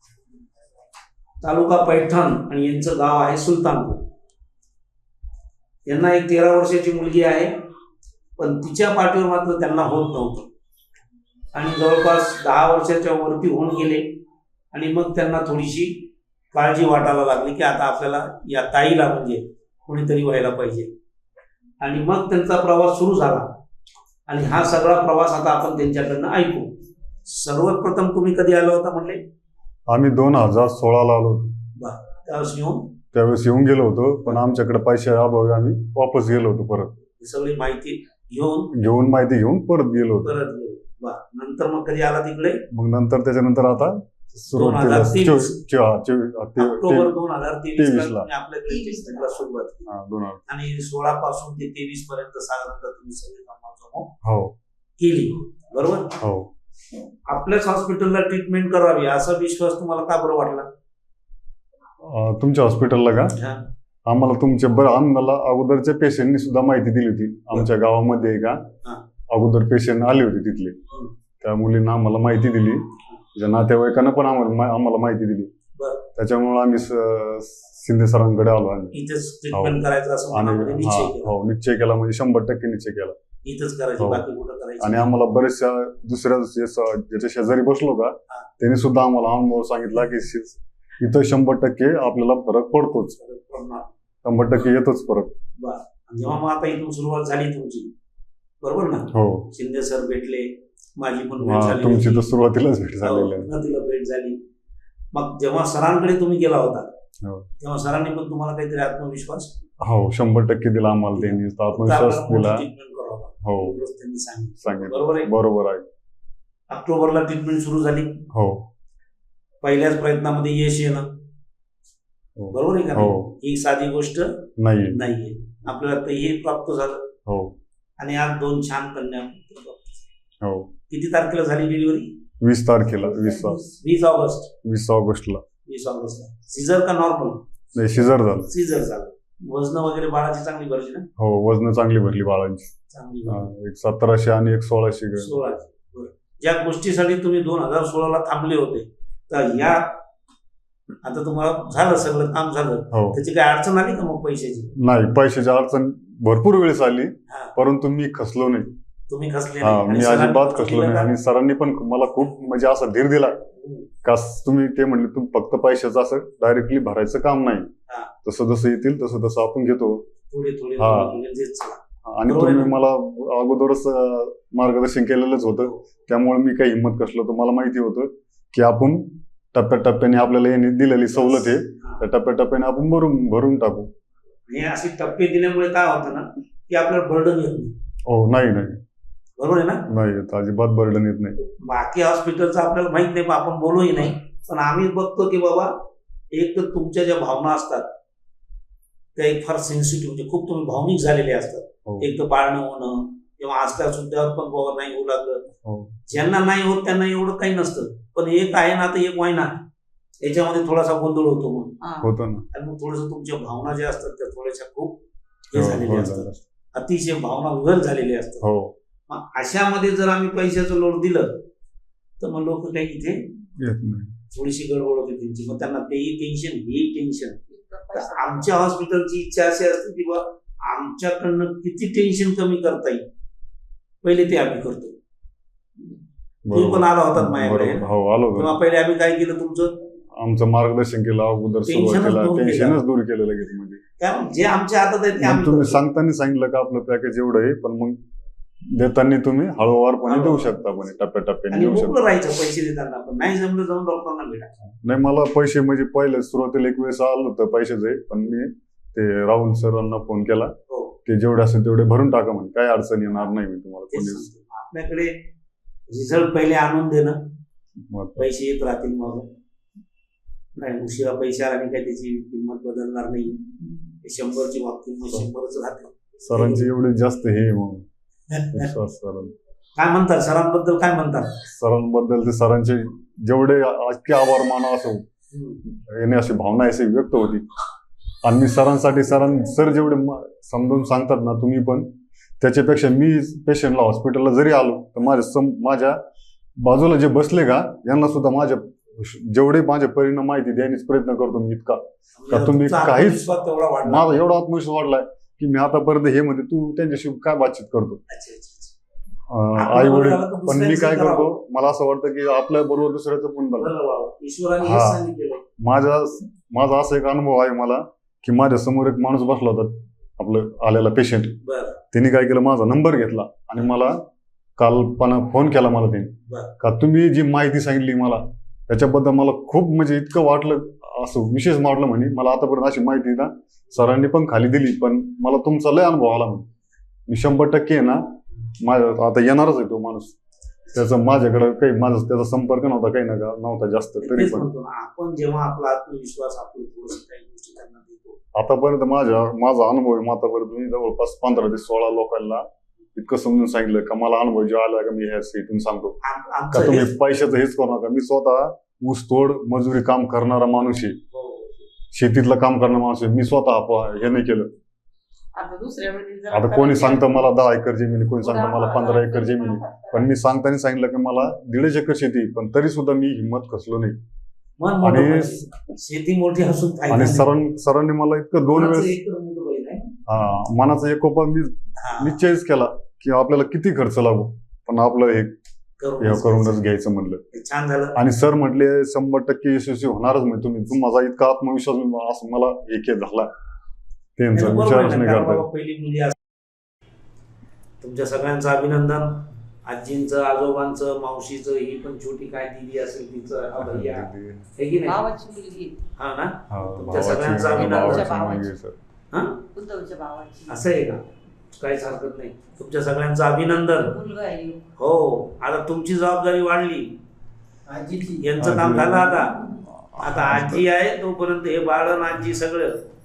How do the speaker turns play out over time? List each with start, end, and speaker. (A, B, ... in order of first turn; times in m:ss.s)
0:01.4-0:04.0 A
0:05.9-0:07.5 A
0:08.4-0:10.5 A
0:11.5-0:14.1 A
0:14.7-0:20.9 A
0:21.8-0:23.5 A
0:24.3-0:26.7 A
0:27.3-0:29.2 A
0:29.9-0:31.5 B
0:31.8-0:32.9 A
0:33.1-0:37.0 B
0:37.2-0:38.7 A
0:38.7-0:40.3 B
0:40.2-0:42.6 A
0:42.7-0:47.1 B
0:44.4-0:45.6 A
0:46.6-0:49.9 A
0:47.8-0:48.3 B
0:49.9-0:50.4 B
0:50.5-0:54.1 A
0:54.2-0:54.5 B
0:55.0-0:56.2 A
0:56.2-0:56.5 B
0:57.3-1:00.7 A
1:02.0-1:03.4 B
1:03.4-1:03.6 A
1:04.1-1:08.6 B
1:09.3-1:10.8 B
1:11.4-1:12.8 B
1:13.4-1:15.5 B
1:15.8-1:16.1 A
1:16.2-1:19.0 B
1:18.9-1:21.4 A
1:19.5-1:19.8 B
1:20.3-1:23.2 B
1:23.4-1:25.2 A
1:24.0-1:24.2 B
1:24.8-1:33.2 B
1:33.2-1:33.9 A
1:34.2-1:35.3 B
1:35.6-1:37.9 A
1:38.6-1:42.3 A
1:39.1-1:39.5 B
1:41.4-1:43.5 B
1:43.0-1:44.4 A
1:45.1-1:46.9 A
1:47.6-1:49.6 A
1:49.8-1:52.7 B
1:51.1-1:55.3 A
1:53.4-1:53.8 B
1:54.6-1:55.8 B
1:56.7-1:58.2 A
1:58.3-1:58.6 B
1:59.6-2:01.1 A
2:02.4-2:03.3 B
2:02.5-2:07.1 A
2:04.6-2:05.0 B
2:07.3-2:07.6 B
2:08.0-2:10.1 A
2:10.4-2:10.7 B
2:10.9-2:12.2 A
2:12.4-2:13.6 B
2:13.6-2:14.5 A
2:14.6-2:15.4 B
2:15.6-2:17.4 A
2:17.8-2:18.5 B
2:18.4-2:21.1 A
2:21.2-2:22.7 B
2:22.9-2:23.5 A
2:23.3-2:25.4 B
2:25.2-2:30.0 A
2:31.0-2:34.7 A
2:32.9-2:33.2 B
2:34.8-2:38.7 B
2:37.3-2:37.5 A
2:39.1-2:41.1 A
2:39.6-2:43.4 B
2:43.6-2:43.9 A
2:44.0-2:47.7 B
2:48.2-2:50.0 B
2:50.3-2:52.8 A
2:50.8-2:51.1 B
2:52.1-3:03.9 B
3:01.1-3:02.0 A
3:04.5-3:07.7 A
3:08.1-3:08.8 B
3:09.4-3:09.8 A
3:09.9-3:11.4 B
3:11.6-3:15.7 A
3:16.3-3:17.9 A
3:19.2-3:25.4 A
3:25.6-3:26.0 B
3:26.1-3:29.6 A
3:30.2-3:31.8 A
3:31.8-3:32.1 C
3:32.0-3:32.4 B
3:32.5-3:35.0 A
3:35.5-3:38.5 A
3:35.5-3:36.3 B
3:38.4-3:38.7 B
3:39.1-3:41.3 A
3:42.2-3:43.2 A
3:43.6-3:44.1 B
3:44.3-3:53.0 A
3:47.5-3:48.4 C
3:54.0-3:54.9 A
3:56.5-3:58.6 B
3:56.5-3:59.7 A
4:00.2-4:03.8 B
4:01.7-4:02.8 A
4:04.0-4:05.8 A
4:05.2-4:08.0 B
4:08.7-4:12.0 B
4:10.0-4:11.0 A
4:11.5-4:14.5 A
4:14.8-4:20.5 B
4:20.7-4:21.0 A
4:21.1-4:24.3 B
4:23.9-4:25.2 A
4:25.9-4:27.2 A
4:27.8-4:28.3 B
4:28.2-4:29.3 A
4:30.6-4:33.4 A
4:34.0-4:36.7 A
4:36.3-4:37.8 B
4:38.3-4:38.7 A
4:38.5-4:39.3 B
4:39.8-4:41.4 A
4:41.5-4:45.0 B
4:45.3-4:45.6 A
4:45.7-4:47.4 B
4:48.2-4:56.0 B
4:56.6-5:03.3 B
5:02.2-5:04.2 A
5:03.8-5:08.0 B
5:08.1-5:08.7 A
5:09.3-5:13.7 B
5:09.6-5:11.4 A
5:13.6-5:15.4 A
5:14.6-5:15.0 B
5:15.6-5:21.4 B
5:21.4-5:21.8 A
5:21.9-5:24.0 B
5:24.6-5:36.5 B
5:37.1-5:38.0 B
5:38.6-5:40.2 B
5:40.7-5:44.5 B
5:44.0-5:48.2 A
5:48.4-5:56.0 B
5:56.0-5:57.0 A
5:56.5-6:01.0 B
6:01.1-6:01.6 A
6:01.9-6:04.5 B
6:05.4-6:07.2 C
6:06.3-6:14.0 B
6:08.2-6:10.0 C
6:14.6-6:17.3 A
6:14.8-6:15.4 B
6:16.9-6:19.0 B
6:18.5-6:19.9 A
6:20.1-6:25.4 B
6:21.8-6:22.2 A
6:25.8-6:26.6 A
6:26.0-6:27.2 B
6:27.3-6:28.0 A
6:28.0-6:33.3 B
6:34.2-6:35.4 B
6:34.3-6:36.2 A
6:37.8-6:45.1 A
6:43.6-6:44.5 B
6:44.8-6:45.8 C
6:46.0-6:48.2 A
6:46.5-6:48.8 B
6:47.4-6:48.5 C
6:49.1-6:49.4 A
6:49.5-6:50.7 C
6:50.5-6:51.1 A
6:51.6-6:54.0 A
6:53.7-6:54.6 C
6:54.8-6:57.0 A
6:57.7-6:58.3 C
6:58.2-6:59.4 A
6:58.4-7:00.6 B
7:00.0-7:02.8 A